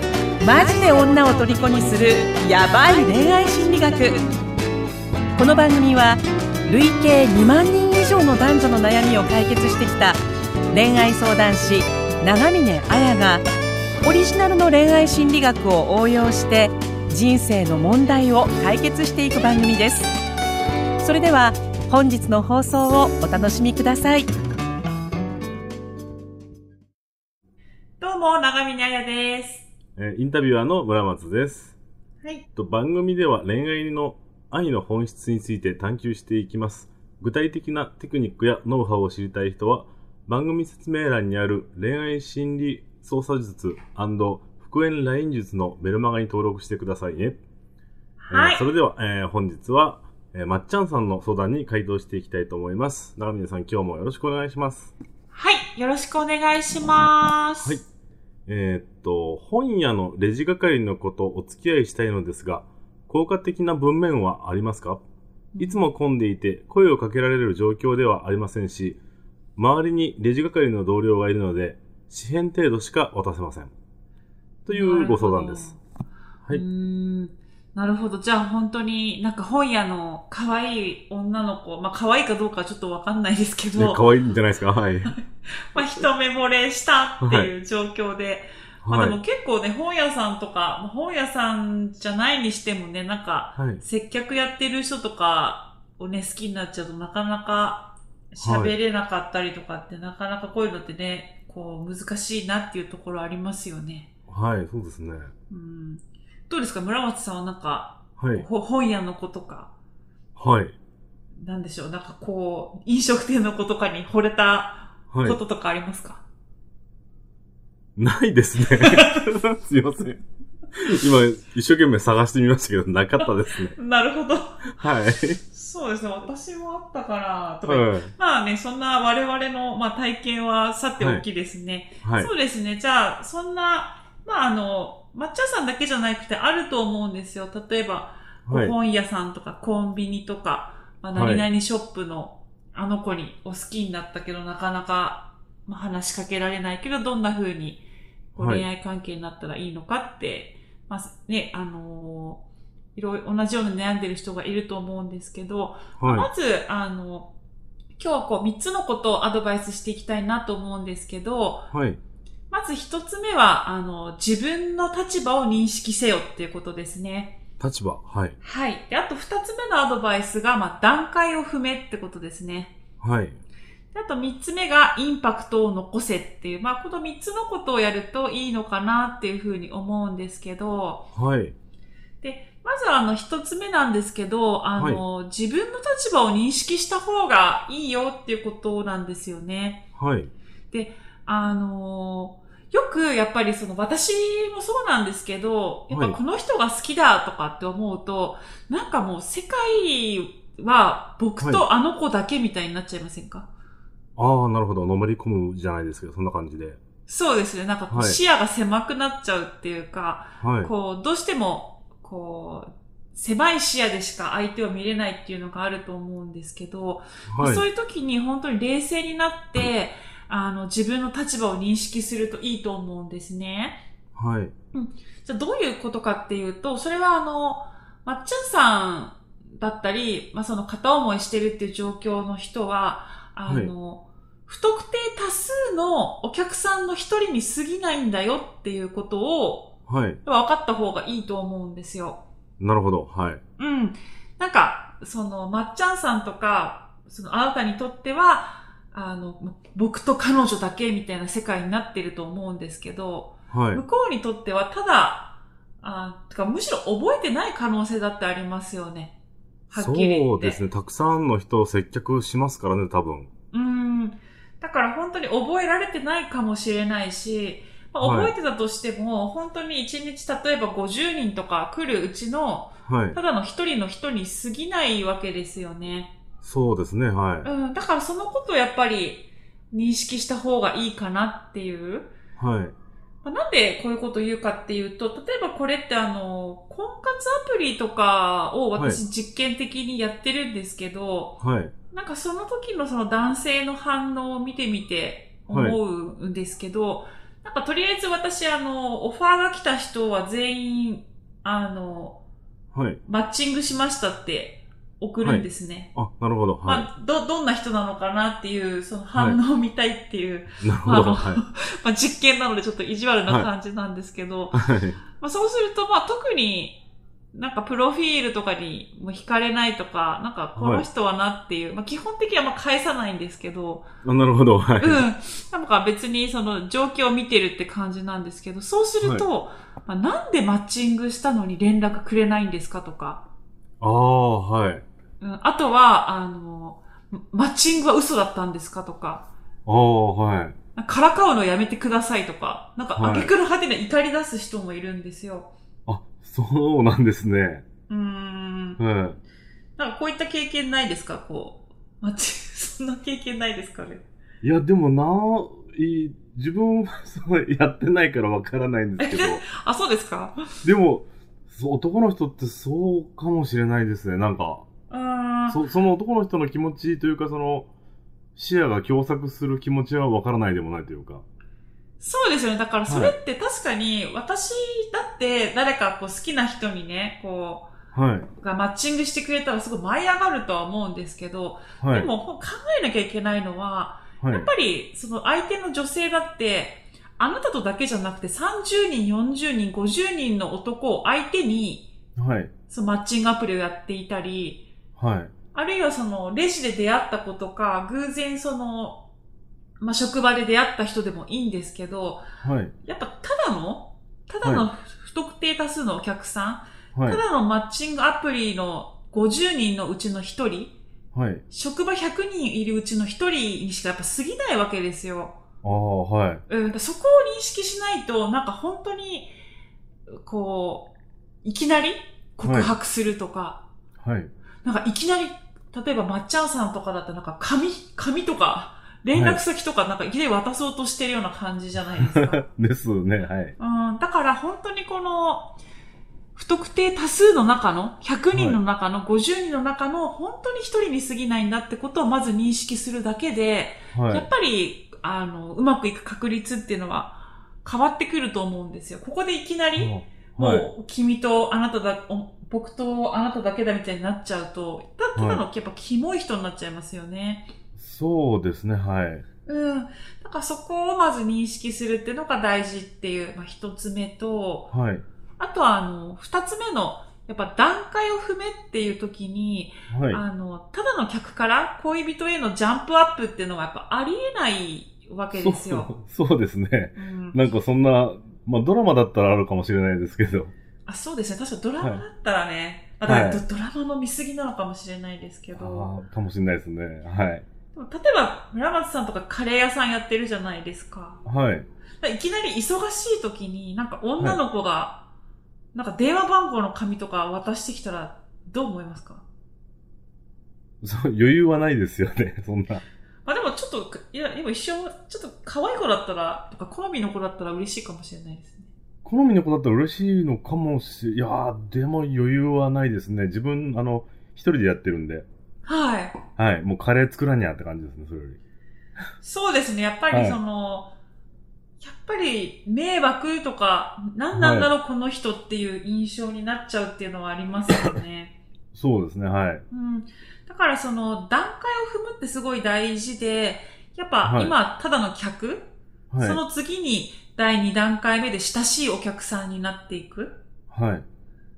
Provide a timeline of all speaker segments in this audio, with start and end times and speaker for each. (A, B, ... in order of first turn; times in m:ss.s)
0:00.4-0:04.2 A
0:05.4-0:10.2 A
0:10.7-0:13.4 A
0:14.0-0:20.1 A
0:21.0-0:24.3 A
0:28.0-0:29.7 B
0:30.0-0:31.8 C
0:32.6-0:47.4 C
0:48.2-0:48.6 B
0:48.3-0:54.9 C
0:55.3-0:57.8 B
0:58.5-1:05.0 C
1:05.6-1:05.8 B
1:05.6-1:09.0 C
1:09.6-1:13.7 C
1:14.7-1:15.7 C
1:14.7-1:15.8 B
1:16.5-1:24.0 B
1:23.8-1:25.2 C
1:25.7-1:44.1 B
1:27.2-1:27.5 C
1:28.8-1:29.2 C
1:33.6-1:33.8 C
1:38.4-1:38.7 C
1:44.3-1:45.3 C
1:45.5-1:49.7 B
1:48.2-1:48.5 C
1:50.4-1:50.8 C
1:51.4-1:56.2 B
1:55.1-1:55.4 C
1:58.0-2:00.2 C
1:58.7-1:59.3 B
2:00.7-2:03.8 C
2:03.8-2:04.7 B
2:04.7-2:05.4 C
2:05.5-2:27.8 B
2:07.7-2:08.1 C
2:11.0-2:11.3 C
2:12.0-2:12.3 C
2:18.5-2:18.8 C
2:21.1-2:21.5 C
2:28.4-2:32.4 B
2:28.4-2:28.6 C
2:33.0-2:37.3 B
2:36.0-2:36.3 C
2:38.0-2:41.7 B
2:41.7-2:42.0 C
2:42.5-2:47.4 B
2:47.6-2:48.4 C
2:48.4-2:52.8 B
2:53.0-2:53.4 C
2:53.9-3:01.1 B
3:01.1-3:01.6 C
3:02.2-3:09.9 B
3:04.8-3:05.0 C
3:10.0-3:10.3 C
3:10.7-3:23.5 B
3:15.9-3:16.2 C
3:24.2-3:26.8 C
3:27.1-3:43.8 B
3:27.9-3:28.2 C
3:30.4-3:30.7 C
3:37.3-3:37.7 C
3:44.2-3:44.5 C
3:44.7-4:02.2 B
3:53.5-3:53.7 C
3:59.9-4:00.2 C
4:02.6-4:03.4 C
4:03.6-4:19.2 B
4:13.5-4:13.8 C
4:19.7-4:20.6 B
4:19.8-4:23.3 C
4:23.5-4:36.1 B
4:28.0-4:28.3 C
4:32.9-4:33.2 C
4:36.4-4:37.5 C
4:37.4-4:42.1 B
4:42.4-4:42.8 C
4:43.2-4:51.4 B
4:48.8-4:49.0 C
4:51.4-4:51.7 C
4:51.9-5:02.2 B
4:55.5-4:55.8 C
5:02.7-5:03.0 C
5:03.1-5:05.9 B
5:05.2-5:06.9 C
5:06.6-5:16.8 B
5:09.1-5:09.4 C
5:10.6-5:11.4 C
5:14.5-5:15.0 C
5:17.3-5:23.9 B
5:20.6-5:20.9 C
5:24.0-5:25.1 C
5:24.8-5:33.3 B
5:29.0-5:29.3 C
5:33.8-5:34.8 C
5:35.2-5:39.3 B
5:39.7-5:40.6 C
5:40.8-5:45.5 B
5:43.0-5:43.3 C
5:45.9-5:47.6 C
5:47.9-5:48.8 B
5:48.8-5:49.2 C
5:49.8-5:54.0 B
5:54.4-5:59.4 C
5:59.0-6:00.4 B
6:00.6-6:04.7 C
6:04.9-6:05.6 B
6:05.5-6:07.7 C
6:08.4-6:11.2 C
6:12.0-6:17.7 B
6:12.9-6:13.2 C
6:17.9-6:18.3 C
6:18.4-6:31.9 B
6:21.8-6:22.1 C
6:24.2-6:24.5 C
6:32.2-6:32.5 C
6:32.7-6:34.7 B
6:35.0-6:35.3 C
6:35.5-6:39.1 B
6:39.8-6:42.3 B
6:42.4-6:42.7 C
6:42.8-6:50.8 B
6:46.9-6:47.2 C
6:51.1-6:51.4 C
6:51.5-6:55.4 B
6:55.6-6:56.4 C
6:56.5-6:59.3 B
7:00.1-7:00.9 B
7:01.4-7:03.6 B
7:02.4-7:02.7 C
7:04.0-7:04.3 C
7:04.6-7:12.4 B
7:09.1-7:09.4 C
7:12.1-7:13.6 C
7:13.6-7:15.6 B
7:16.4-7:37.5 B
7:18.3-7:18.6 C
7:23.9-7:24.3 C
7:29.8-7:30.7 C
7:35.2-7:35.4 C
7:37.8-7:39.2 C
7:39.5-7:44.7 B
7:44.7-7:45.0 C
7:45.4-7:56.0 B
7:49.9-7:50.2 C
7:55.3-8:00.5 C
7:57.0-7:57.4 B
8:00.9-8:05.9 B
8:03.0-8:03.4 C
8:05.5-8:07.5 C
8:07.7-8:11.2 B
8:11.2-8:11.7 C
8:12.0-8:15.0 B
8:15.7-8:19.2 B
8:20.8-8:22.8 C
8:23.3-8:28.7 B
8:29.0-8:35.3 C
8:35.6-8:36.2 B
8:36.4-8:38.4 C
8:39.2-8:40.9 B
8:40.1-8:40.4 C
8:41.8-8:48.4 B
8:44.3-8:44.7 C
8:48.7-8:49.6 C
8:49.7-9:00.4 B
8:54.2-8:54.5 C
8:56.1-8:56.4 C
9:00.7-9:01.1 C